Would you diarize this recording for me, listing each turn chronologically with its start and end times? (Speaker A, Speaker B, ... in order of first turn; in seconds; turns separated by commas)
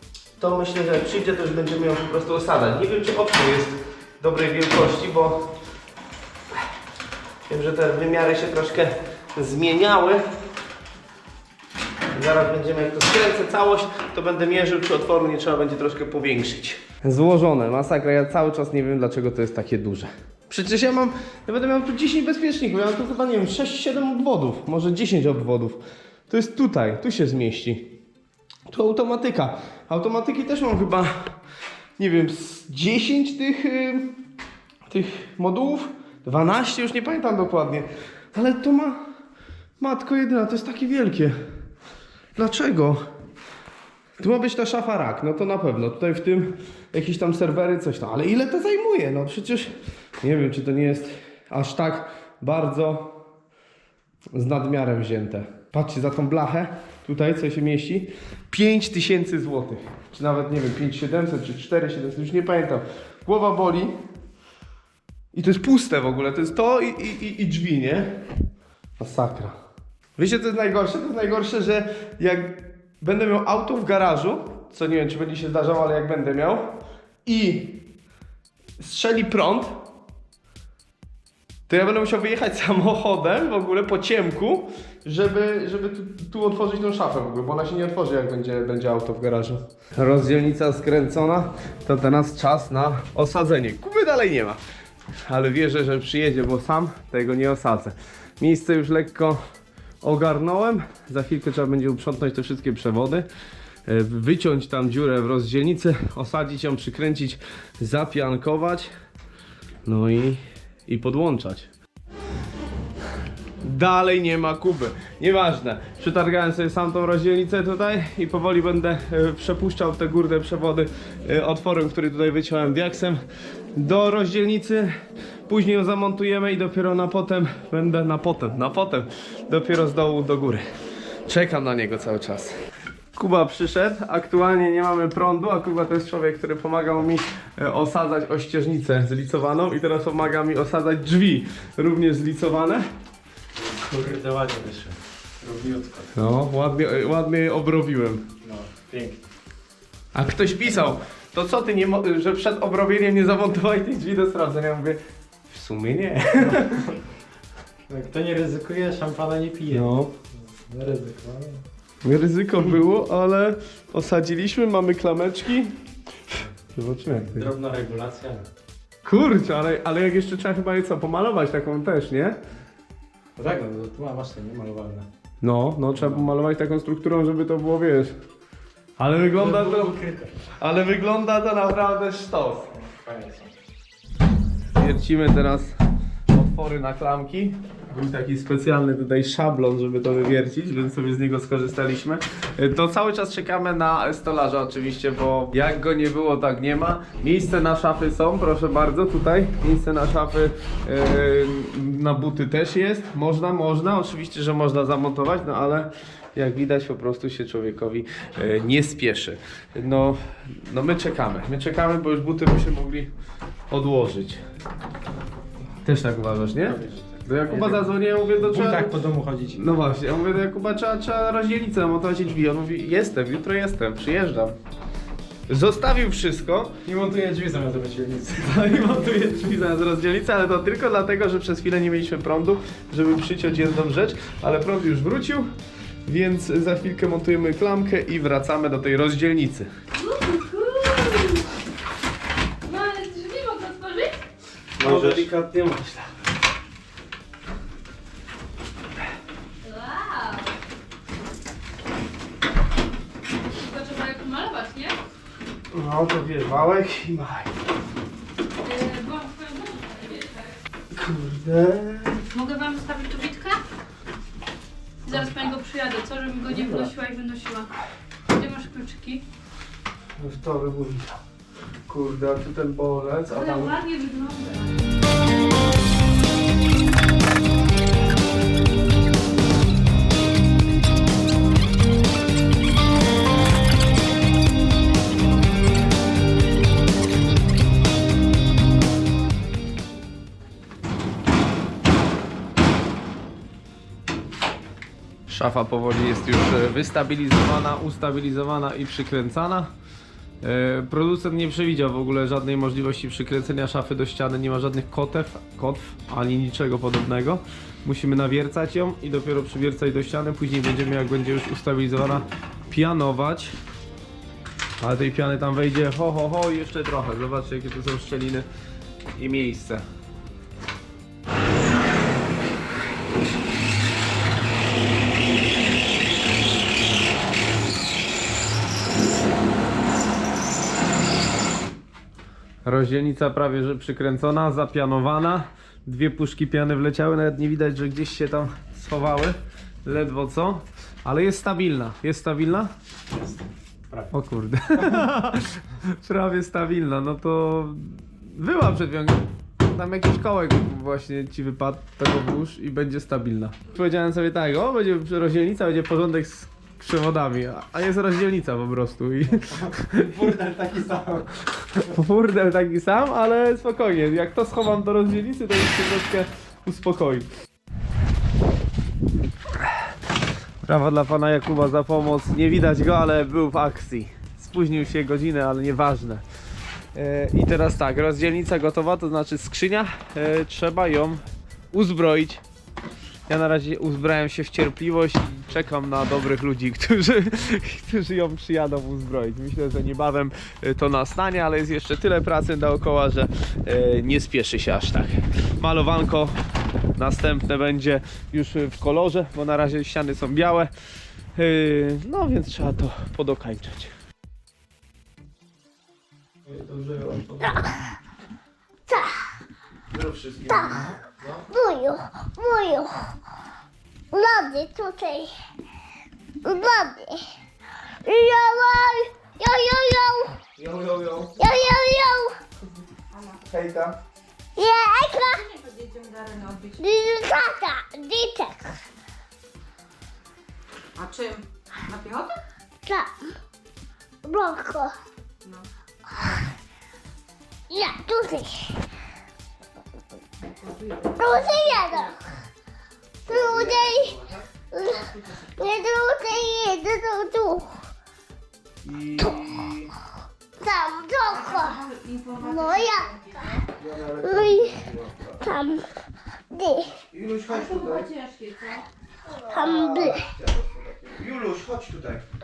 Speaker A: 0.4-5.5, Speaker A: 7.5-10.2, Speaker A: 12.1-27.9, Speaker A: 28.7-31.1, Speaker A: 32.0-34.1, Speaker A: 34.9-39.0, Speaker A: 39.8-41.4, Speaker A: 42.4-43.0, Speaker A: 44.2-53.1, Speaker A: 54.3-63.9, Speaker A: 65.3-68.1, Speaker A: 69.0-69.5, Speaker A: 70.2-76.7, Speaker A: 77.3-77.8, Speaker A: 78.8-79.7, Speaker A: 81.7-94.6, Speaker A: 95.2-99.4, Speaker A: 100.0-103.3, Speaker A: 103.8-108.9, Speaker A: 109.8-111.7, Speaker A: 113.6-123.2, Speaker A: 123.8-124.9, Speaker A: 125.5-130.6, Speaker A: 131.3-132.5, Speaker A: 133.2-142.8, Speaker B: 143.6-146.1, Speaker A: 146.2-148.3, Speaker B: 148.4-149.2, Speaker A: 150.1-156.8, Speaker B: 156.4-157.0, Speaker B: 157.9-161.6, Speaker A: 159.7-160.1, Speaker A: 162.0-165.8, Speaker A: 166.7-167.5, Speaker B: 167.1-168.5, Speaker A: 169.0-172.4, Speaker B: 173.4-175.1, Speaker A: 175.4-178.1, Speaker B: 175.9-176.2, Speaker A: 179.0-179.9, Speaker B: 179.3-180.3, Speaker A: 180.6-182.7, Speaker B: 182.8-183.5, Speaker A: 184.8-185.7, Speaker A: 186.3-213.1, Speaker A: 213.7-214.4, Speaker A: 215.8-218.9, Speaker B: 216.7-219.6, Speaker A: 219.5-224.5, Speaker A: 225.5-226.7, Speaker B: 226.8-228.9, Speaker A: 228.4-235.5, Speaker A: 236.1-239.7, Speaker C: 240.0-241.4, Speaker C: 242.7-244.2, Speaker A: 244.8-245.3, Speaker B: 244.8-246.0, Speaker C: 249.6-250.5, Speaker C: 253.5-255.0, Speaker A: 255.7-257.5, Speaker C: 258.6-260.6, Speaker A: 260.9-262.2, Speaker C: 262.3-263.6, Speaker C: 265.0-267.8, Speaker C: 268.3-269.2, Speaker A: 270.2-271.2, Speaker A: 271.9-273.7, Speaker C: 273.3-274.8, Speaker A: 295.3-299.7, Speaker A: 300.4-313.5, Speaker A: 314.8-318.5, Speaker A: 319.1-319.8, Speaker A: 332.6-342.7, Speaker B: 343.1-344.1, Speaker A: 344.1-360.1, Speaker B: 359.4-361.9, Speaker A: 361.6-367.3, Speaker A: 370.6-376.2, Speaker A: 376.9-382.4, Speaker A: 383.3-396.4, Speaker A: 396.9-400.7, Speaker A: 401.4-403.9, Speaker A: 406.5-407.6, Speaker D: 408.9-409.1, Speaker A: 409.9-411.4, Speaker D: 410.5-410.9, Speaker D: 411.5-413.1, Speaker D: 414.1-415.3, Speaker D: 416.4-417.3, Speaker D: 418.0-420.4, Speaker A: 420.6-421.4, Speaker D: 421.4-422.4, Speaker E: 423.1-423.4, Speaker A: 423.5-423.9, Speaker D: 424.6-425.4, Speaker E: 425.3-426.8, Speaker D: 426.8-428.8, Speaker E: 430.9-432.4, Speaker D: 432.9-433.3, Speaker D: 434.2-434.9, Speaker E: 435.4-436.4, Speaker D: 437.7-438.8, Speaker E: 440.5-442.1, Speaker D: 441.1-442.1, Speaker D: 443.2-444.1, Speaker A: 443.3-444.4, Speaker D: 444.7-447.8, Speaker A: 448.8-449.9, Speaker D: 450.6-451.8, Speaker E: 451.3-453.6, Speaker D: 452.4-453.1, Speaker A: 453.8-455.4, Speaker D: 454.2-454.8, Speaker D: 455.4-455.9, Speaker D: 456.5-456.9, Speaker A: 456.8-458.1, Speaker E: 457.5-458.9, Speaker A: 459.4-462.2, Speaker D: 459.5-460.2